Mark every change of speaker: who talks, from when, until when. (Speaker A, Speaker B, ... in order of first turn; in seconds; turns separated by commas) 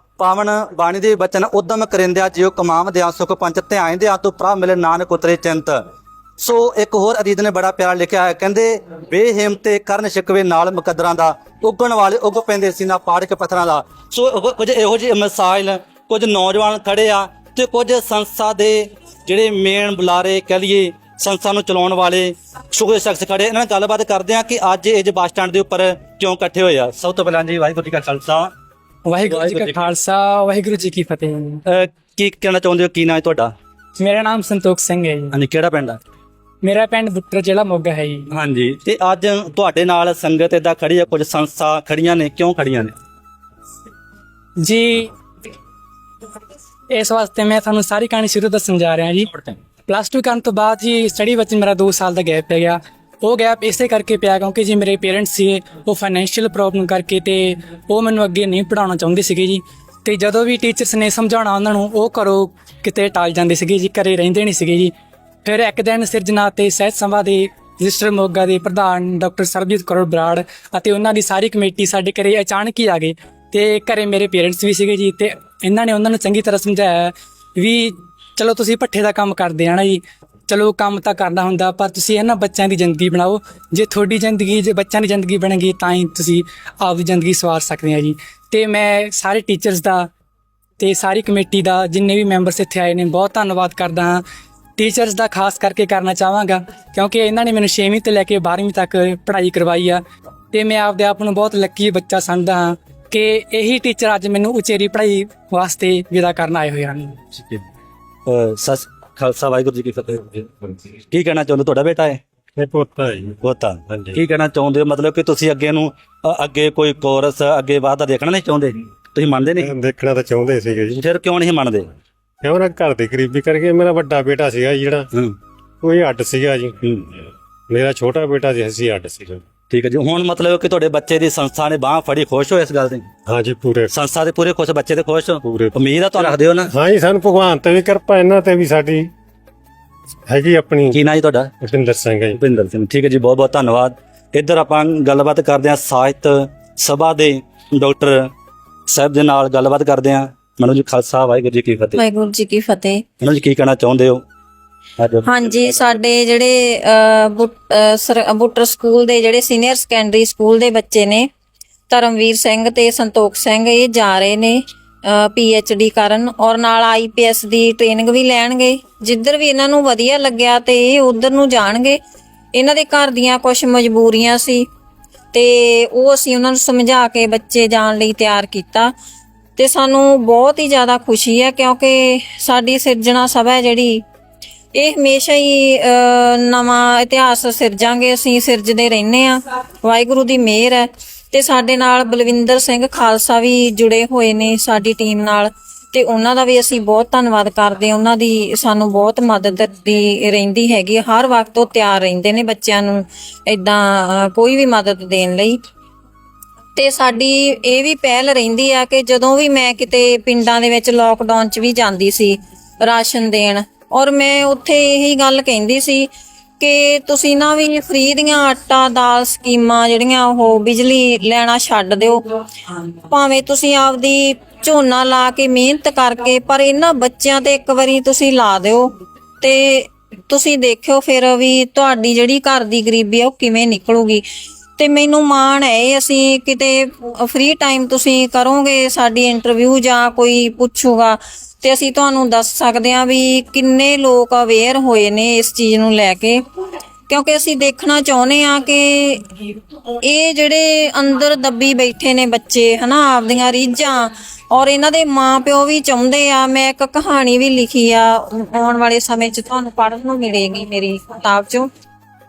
Speaker A: 0.2-5.8, Speaker A: 6.4-28.5, Speaker B: 29.1-31.6, Speaker A: 29.2-29.9, Speaker A: 31.6-33.5, Speaker B: 34.0-35.4, Speaker A: 35.3-36.0, Speaker B: 36.6-38.3, Speaker A: 38.3-42.9, Speaker B: 44.6-45.1, Speaker B: 46.9-64.9, Speaker B: 65.4-90.1, Speaker B: 90.8-94.2, Speaker B: 94.8-100.0, Speaker B: 100.5-107.2, Speaker A: 108.2-110.5, Speaker A: 111.1-112.2, Speaker C: 112.6-113.4, Speaker A: 113.4-119.7, Speaker C: 119.5-121.0, Speaker A: 121.0-121.9, Speaker C: 122.4-125.1, Speaker C: 125.8-126.7, Speaker C: 127.7-129.4, Speaker A: 129.7-133.1, Speaker C: 133.2-133.9, Speaker A: 133.9-136.7, Speaker C: 135.4-139.1, Speaker C: 140.3-141.0, Speaker A: 140.9-141.5, Speaker C: 141.6-142.4, Speaker A: 142.3-148.3, Speaker A: 148.9-152.0, Speaker D: 151.9-153.0, Speaker A: 153.2-154.2, Speaker A: 155.0-155.3, Speaker D: 155.2-161.2, Speaker D: 161.9-172.0, Speaker D: 172.5-174.7, Speaker D: 175.3-178.9, Speaker D: 179.6-184.0, Speaker D: 184.7-205.6, Speaker D: 206.8-216.1, Speaker D: 216.6-222.2, Speaker D: 223.1-228.9, Speaker D: 229.4-234.2, Speaker D: 234.8-246.4, Speaker D: 247.1-249.2, Speaker D: 250.0-261.7